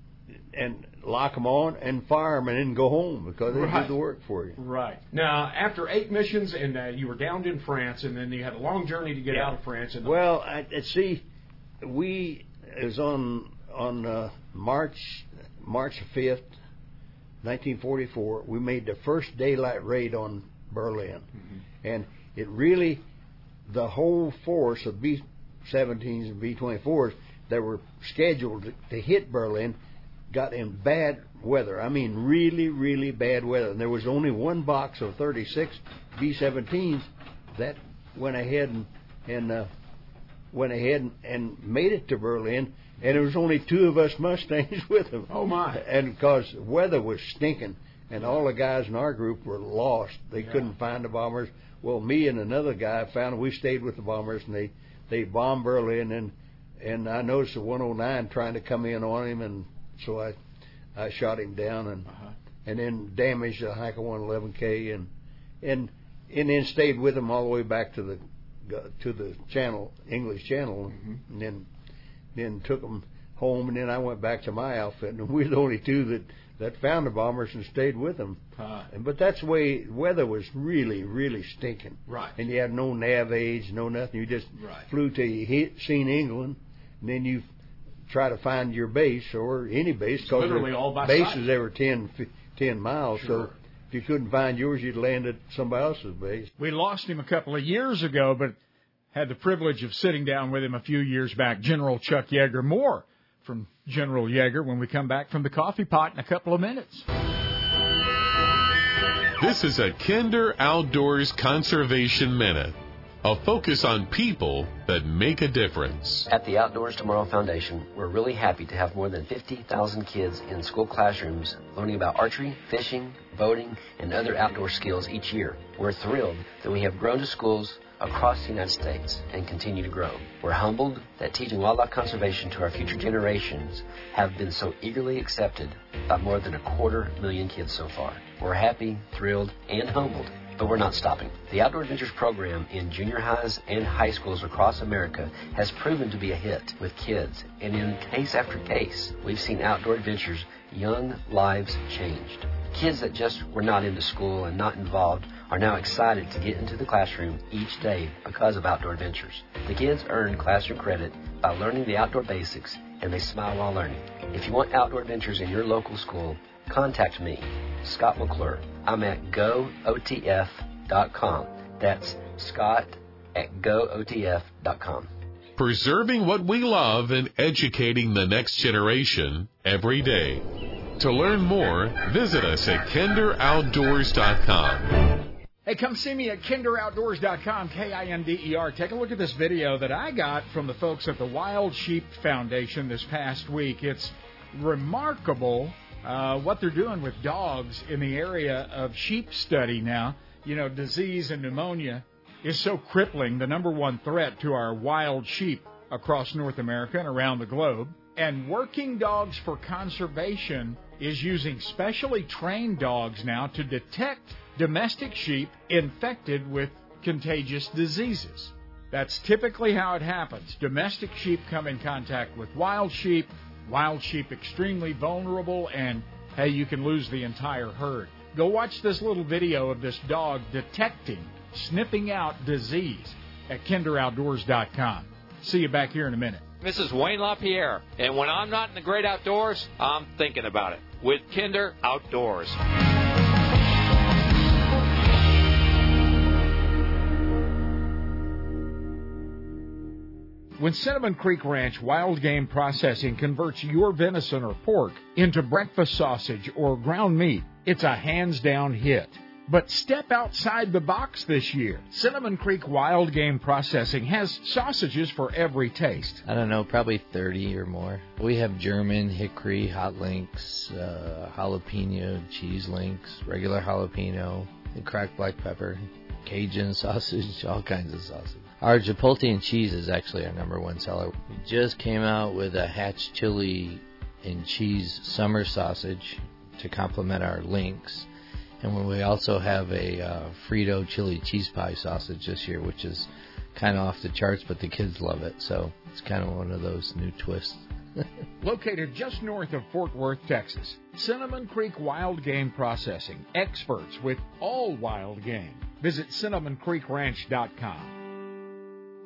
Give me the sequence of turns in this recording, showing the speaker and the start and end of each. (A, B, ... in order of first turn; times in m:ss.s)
0:00.5-0:04.6 A
0:03.5-0:03.9 B
0:04.6-0:10.2 B
0:09.3-0:11.2 A
0:11.8-0:16.5 A
0:17.4-0:21.3 A
0:21.8-0:23.0 A
0:23.6-0:29.8 A
0:30.3-0:39.7 A
0:40.5-1:00.4 A
0:45.3-0:45.8 B
0:48.2-0:48.4 B
0:50.4-0:50.7 B
1:00.9-1:02.1 A
1:02.6-1:05.1 A
1:05.6-1:11.7 A
1:10.9-1:11.2 B
1:12.3-1:27.4 A
1:18.6-1:18.9 B
1:22.1-1:22.4 B
1:24.6-1:24.9 B
1:28.1-1:36.5 A
1:30.2-1:31.5 B
1:33.1-1:33.5 B
1:36.6-1:38.6 C
1:39.1-1:47.0 C
1:49.4-1:56.3 D
1:56.3-2:55.1 E
2:55.6-3:00.4 D
3:01.0-3:05.0 D
3:05.6-3:56.4 C
3:56.6-4:02.6 F
4:10.6-4:26.2 C
4:26.2-4:48.1 G
4:48.6-4:57.7 G
4:58.4-5:08.0 C